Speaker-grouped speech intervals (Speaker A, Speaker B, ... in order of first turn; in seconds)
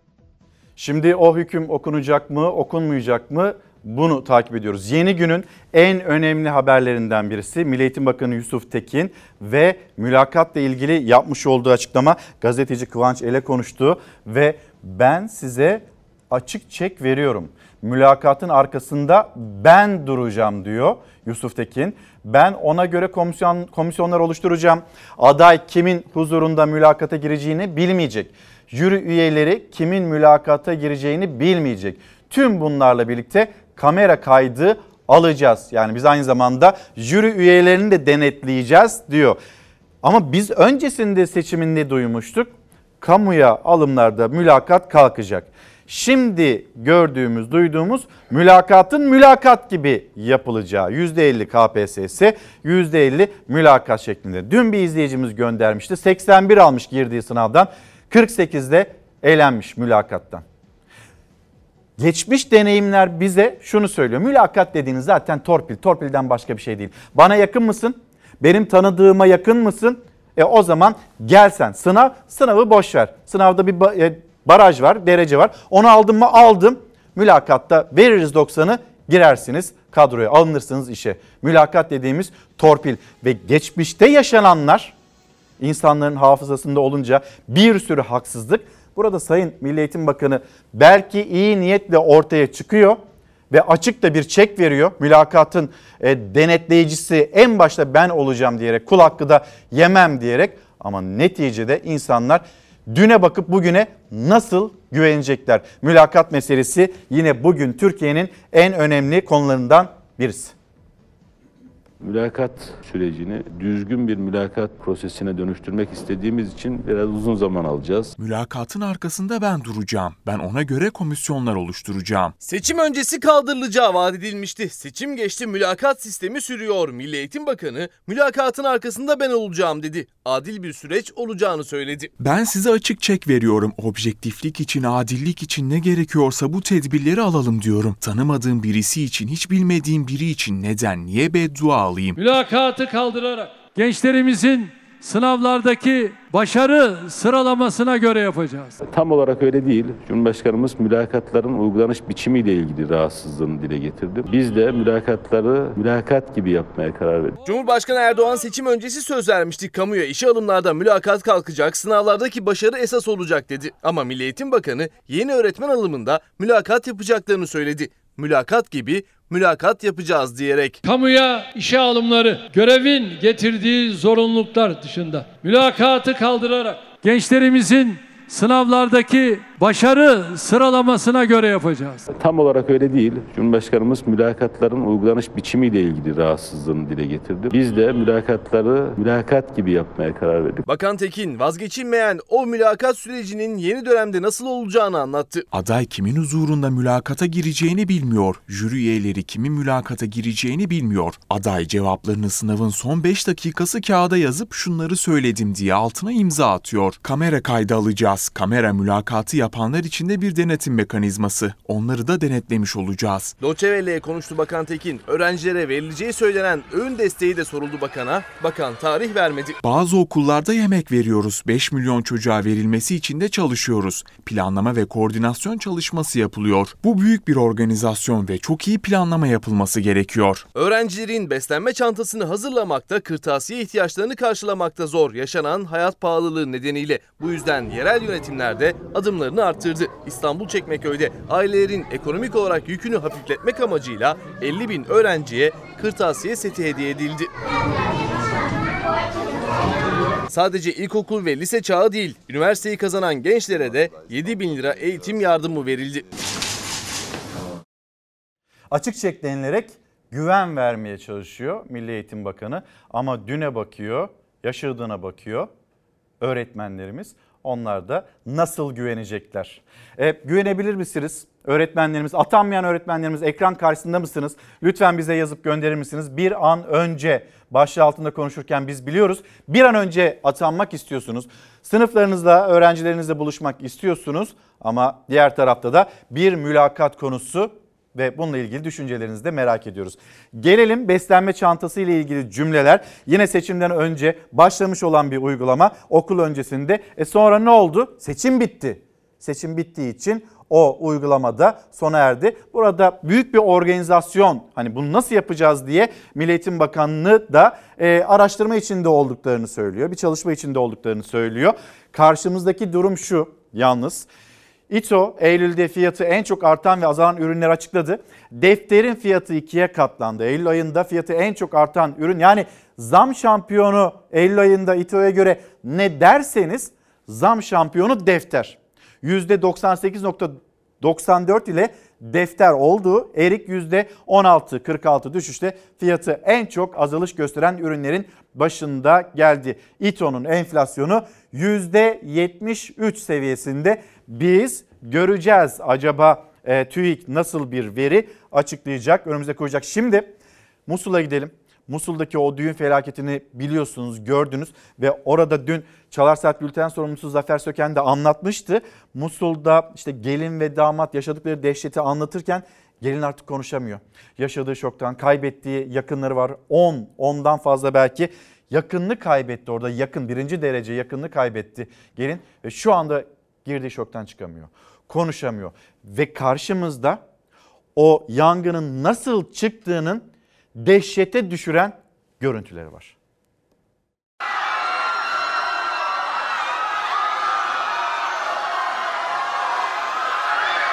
Speaker A: 0.8-39.4, 40.0-60.4, 62.0-84.9, 85.6-93.0, 93.5-110.5, 258.7-265.5, 266.2-314.1, 314.7-350.1, 350.7-377.0, 377.8-382.9
Speaker B: 112.0-118.1, 148.8-157.4, 182.1-190.6
Speaker C: 118.2-122.3, 132.2-142.2, 195.5-213.3, 219.6-230.5
Speaker D: 122.4-132.1, 157.4-170.8, 190.7-195.4, 213.4-219.6, 230.5-247.3, 250.3-256.0
Speaker E: 142.2-148.7, 170.8-182.0